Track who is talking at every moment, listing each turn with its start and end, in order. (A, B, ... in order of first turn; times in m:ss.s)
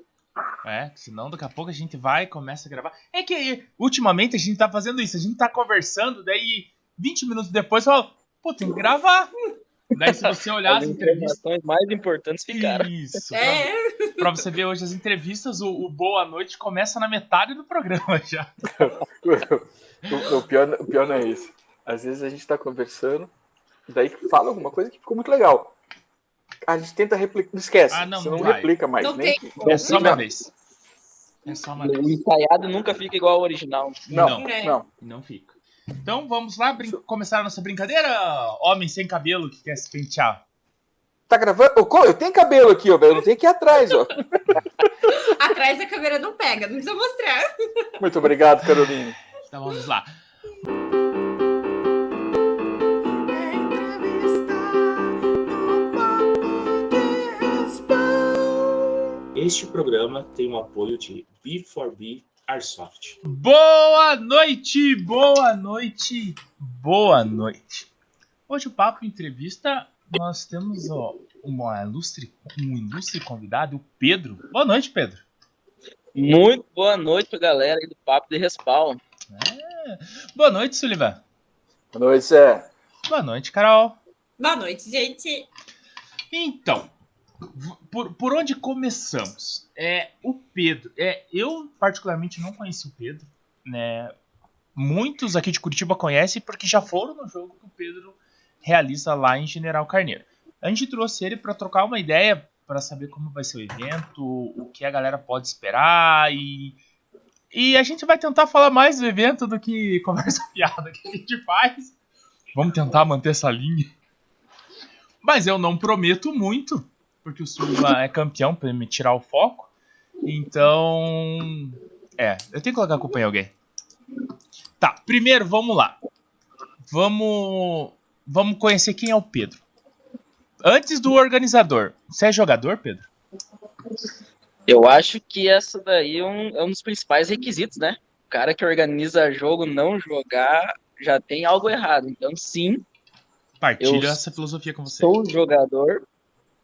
0:00.6-0:09.3 A
0:09.9-0:11.4 A
0:10.1-0:12.9 B
0:12.5-0:18.5 A
0:13.3-0:14.1 C
0:18.8-0:23.3 D
0:23.9-0:25.7 D
0:26.6-0:30.2 D
0:27.9-0:28.7 A
0:29.0-0:30.0 C
0:29.6-0:30.5 A
0:29.8-0:30.2 B
0:31.5-0:32.1 A
0:31.8-0:34.1 B
0:34.1-0:40.4 A
0:34.1-0:34.8 D
0:34.4-0:34.8 C
0:41.3-0:44.9 D
0:45.1-0:47.5 C
0:48.0-0:49.2 D
0:49.3-0:50.1 A
0:59.4-1:03.2 E
1:03.2-1:07.9 A
1:08.5-1:15.2 A
1:16.2-1:19.0 B
1:19.3-1:21.2 A
1:21.9-1:22.7 D
1:23.1-1:24.0 A
1:24.4-1:25.5 C
1:26.3-1:26.9 A
1:27.6-1:34.1 A
1:34.8-1:46.8 A
1:47.5-1:51.9 A
1:52.6-1:53.9 A
1:55.2-1:59.7 A
2:00.2-2:03.5 A
2:04.8-2:06.0 A
2:06.9-2:09.6 A
2:10.6-2:13.1 A
2:14.7-2:22.8 B
2:23.6-2:25.2 A
2:23.8-2:24.2 B
2:24.9-2:26.0 B